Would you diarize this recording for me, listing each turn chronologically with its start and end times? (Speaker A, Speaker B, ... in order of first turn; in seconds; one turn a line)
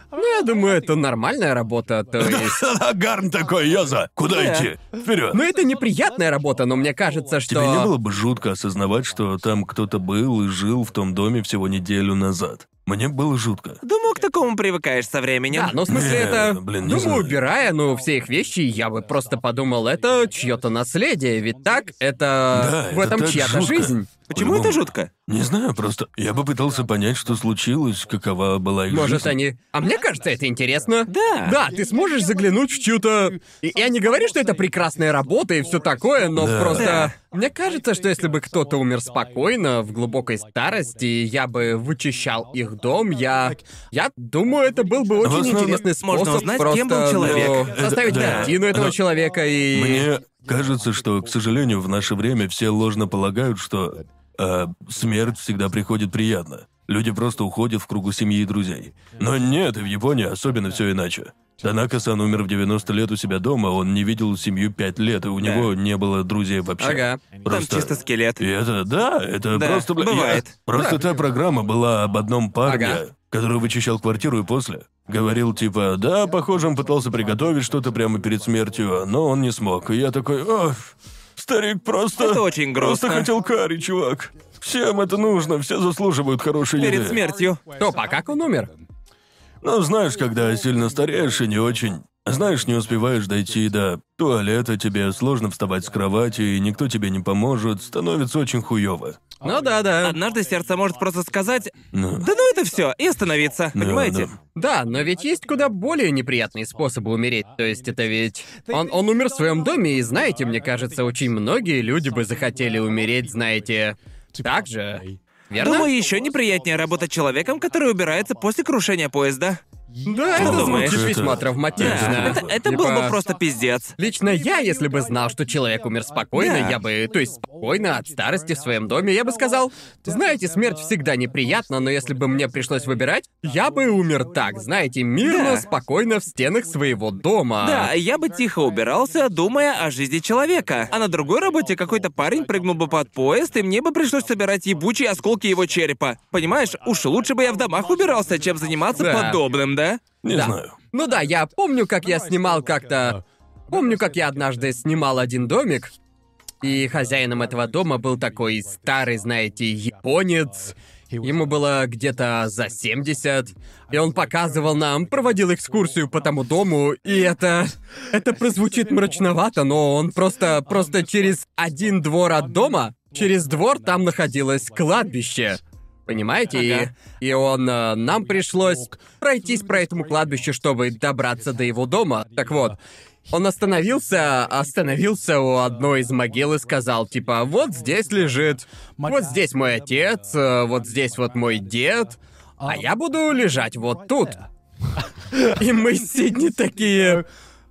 Speaker A: 0.1-2.6
Speaker B: 2.2-5.4
Speaker C: 4.3-4.7
Speaker A: 5.3-7.9
Speaker B: 7.5-13.8
Speaker C: 13.8-15.8
Speaker A: 15.5-24.1
Speaker B: 15.9-17.4
Speaker B: 22.5-29.4
Speaker C: 24.3-25.1
Speaker A: 28.9-50.1
Speaker C: 31.1-31.6
Speaker B: 36.4-37.1
Speaker C: 36.8-37.1
Speaker B: 45.2-45.9
Speaker C: 46.0-48.5
Speaker B: 47.2-49.0
Speaker B: 49.7-87.2
Speaker C: 65.4-65.7
Speaker A: 66.8-67.2
Speaker C: 67.5-68.4
Speaker C: 69.5-70.5
Speaker A: 72.7-73.0
Speaker C: 82.2-83.3
Speaker C: 86.8-87.6
Speaker A: 87.8-88.7
Speaker B: 89.6-99.2
Speaker A: 99.4-100.2
Speaker C: 100.0-104.3
Speaker B: 101.9-102.3
Speaker B: 103.8-104.3
Speaker A: 104.5-115.9
Speaker C: 115.6-119.6
Speaker A: 120.0-123.2
Speaker B: 120.3-122.6
Speaker C: 120.4-121.1
Speaker C: 121.8-124.0
Speaker A: 124.0-137.9
Speaker C: 126.3-126.8
Speaker C: 135.2-135.7
Speaker C: 137.6-150.0
Speaker A: 149.0-149.4
Speaker B: 150.2-150.8
Speaker A: 150.3-155.9
Speaker A: 156.6-182.8
Speaker C: 176.5-176.9
Speaker A: 183.3-194.4
Speaker A: 195.4-197.2